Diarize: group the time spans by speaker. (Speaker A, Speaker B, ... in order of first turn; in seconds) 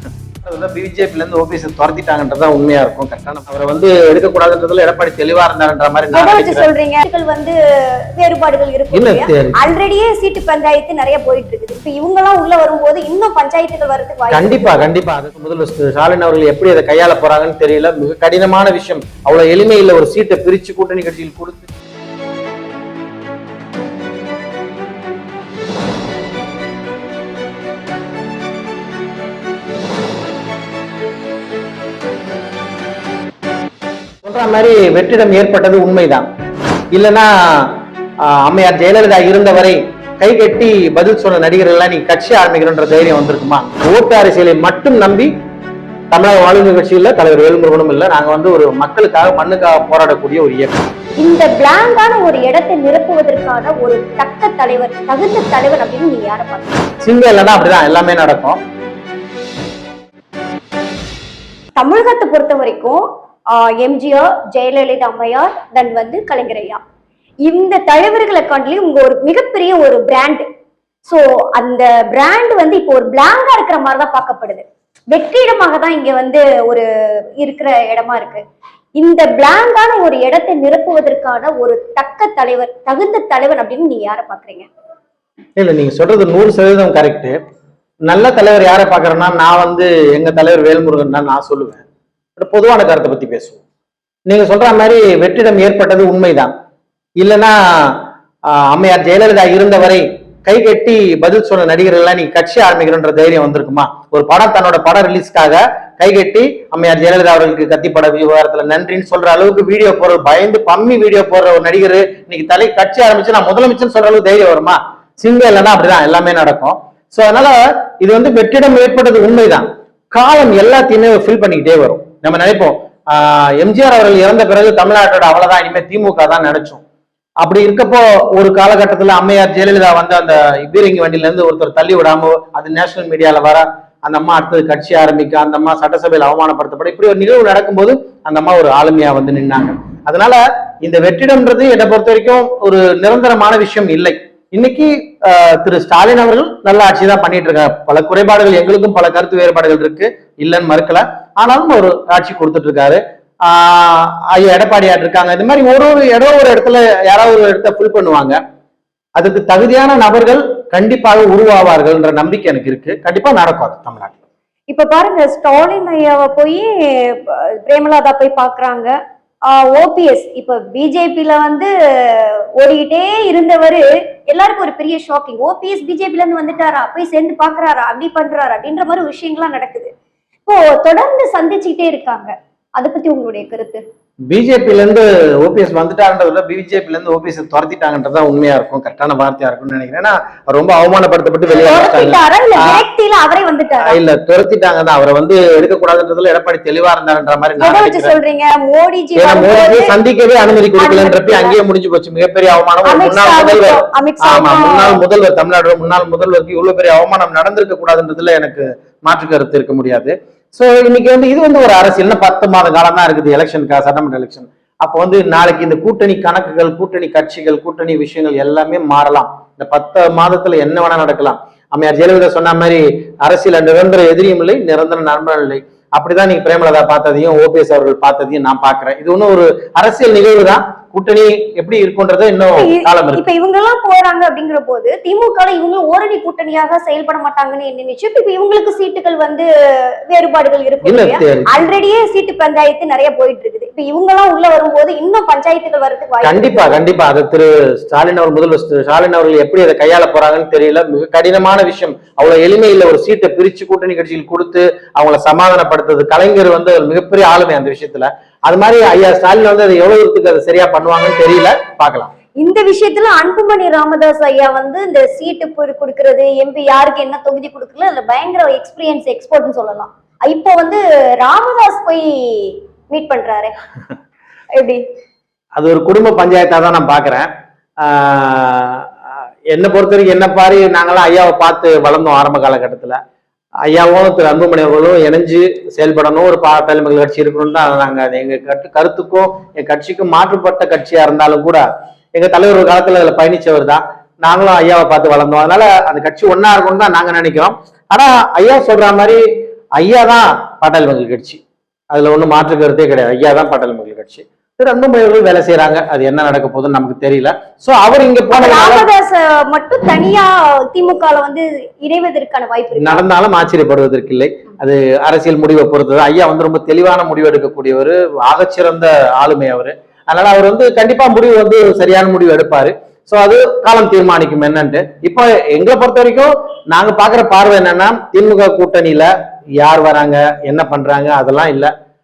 Speaker A: 0.4-6.7, 8.9-9.6, 14.3-21.7, 34.2-36.2, 36.9-45.3, 46.1-50.9, 57.0-58.6, 85.6-87.3, 88.1-91.8, 92.4-93.6, 94.3-96.5, 97.2-126.8, 127.4-158.4, 159.2-164.2, 184.3-192.8, 193.8-198.1, 199.2-233.2, 240.8-241.5, 246.2-262.1, 275.6-277.3, 277.8-278.9, 279.5-283.0, 283.6-291.6, 292.1-299.2, 299.8-308.9, 312.8-331.7
Speaker B: 6.1-14.7, 51.2-56.8, 61.8-66.8, 67.4-70.4, 71.0-76.8, 77.4-78.4, 79.0-84.7, 164.7-168.9, 169.5-179.9, 180.4-183.8, 191.5-194.0, 197.6-199.9, 200.8-201.6, 202.8-205.0, 232.6-246.7, 262.4-273.5, 274.5-274.8, 308.3-313.0